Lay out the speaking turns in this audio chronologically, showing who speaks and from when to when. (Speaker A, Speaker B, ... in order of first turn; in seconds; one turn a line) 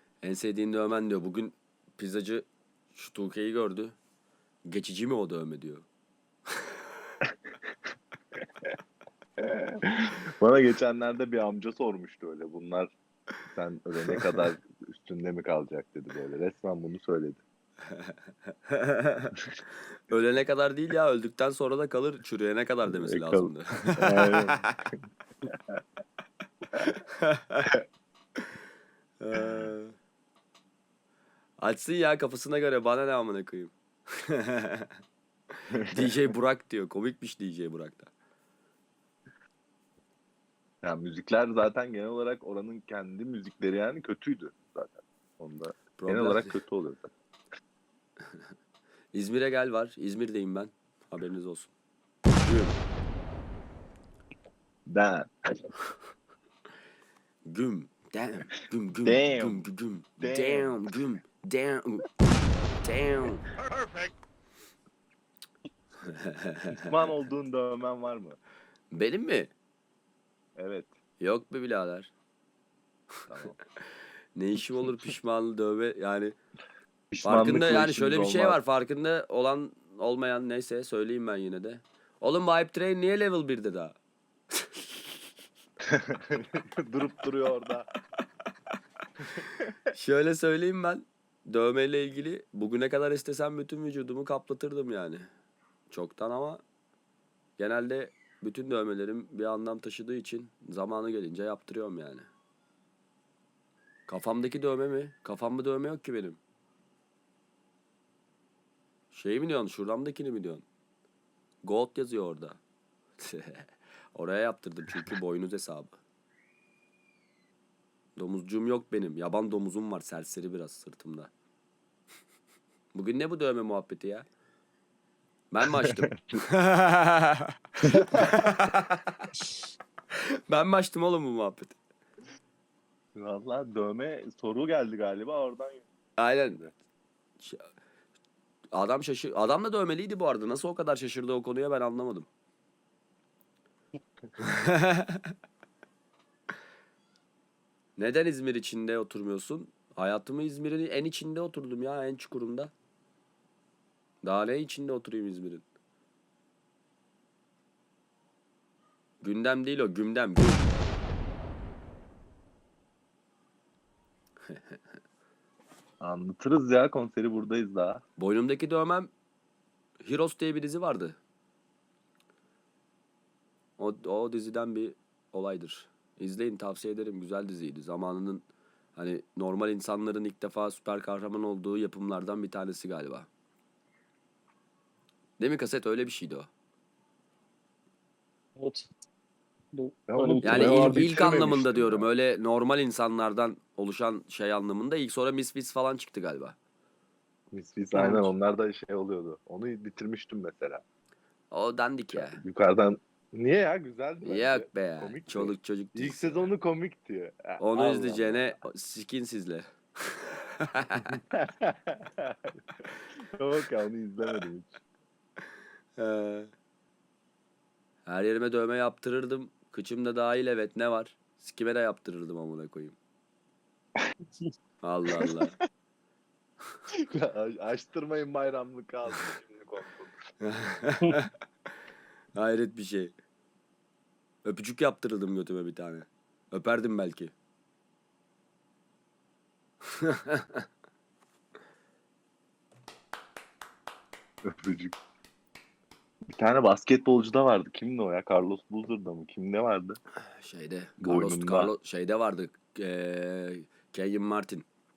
Speaker A: 0.2-3.9
Speaker A: 4.6-5.8
Speaker B: 9.4-12.9
Speaker B: 13.4-17.4
Speaker A: 14.1-14.3
Speaker A: 17.9-19.3
Speaker A: 20.1-24.8
Speaker B: 22.9-24.7
Speaker A: 26.8-27.7
Speaker A: 29.2-29.9
Speaker B: 29.3-29.6
Speaker A: 31.6-34.9
Speaker A: 35.8-38.1
Speaker B: 40.8-47.1
Speaker A: 46.0-46.5
Speaker A: 49.1-51.7
Speaker A: 52.3-52.8
Speaker B: 54.9-55.7
Speaker A: 57.5-62.1
Speaker B: 59.0-59.6
Speaker B: 60.2-61.0
Speaker A: 62.8-63.4
Speaker A: 66.0-66.9
Speaker B: 66.8-68.4
Speaker A: 68.9-69.5
Speaker B: 70.6-70.9
Speaker A: 71.2-72.1
Speaker B: 73.3-73.6
Speaker A: 74.3-76.3
Speaker B: 77.1-78.6
Speaker A: 77.2-83.9
Speaker A: 84.5-84.9
Speaker B: 85.9-87.9
Speaker A: 89.9-95.2
Speaker A: 95.9-96.6
Speaker A: 97.6-102.2
Speaker A: 104.1-106.4
Speaker A: 109.1-110.7
Speaker A: 111.6-112.6
Speaker A: 113.2-116.0
Speaker A: 118.2-121.3
Speaker A: 122.9-124.2
Speaker A: 125.5-129.3
Speaker B: 125.7-126.4
Speaker B: 127.9-128.3
Speaker A: 130.5-131.8
Speaker B: 133.1-135.8
Speaker A: 136.2-136.6
Speaker B: 136.4-136.7
Speaker A: 137.4-137.7
Speaker A: 138.7-142.3
Speaker A: 144.4-145.3
Speaker A: 148.0-152.7
Speaker A: 154.2-155.6
Speaker A: 159.2-160.7
Speaker A: 164.5-164.8
Speaker B: 166.0-168.0
Speaker A: 168.2-169.1
Speaker A: 170.0-171.2
Speaker A: 173.8-183.3
Speaker A: 185.4-186.5
Speaker C: 188.6-188.9
Speaker C: 189.7-191.1
Speaker B: 190.1-192.1
Speaker A: 190.4-196.6
Speaker B: 197.5-200.8
Speaker C: 197.9-198.3
Speaker A: 201.5-202.4
Speaker B: 202.1-208.5
Speaker A: 204.2-206.5
Speaker A: 207.6-211.2
Speaker B: 211.1-214.8
Speaker A: 216.0-216.5
Speaker A: 218.1-223.0
Speaker A: 224.8-225.6
Speaker B: 227.1-230.1
Speaker A: 230.4-231.3
Speaker A: 232.3-233.1
Speaker A: 234.4-237.3
Speaker A: 239.9-240.6
Speaker B: 244.4-245.0
Speaker B: 246.3-250.0
Speaker A: 250.4-254.7
Speaker B: 251.0-251.7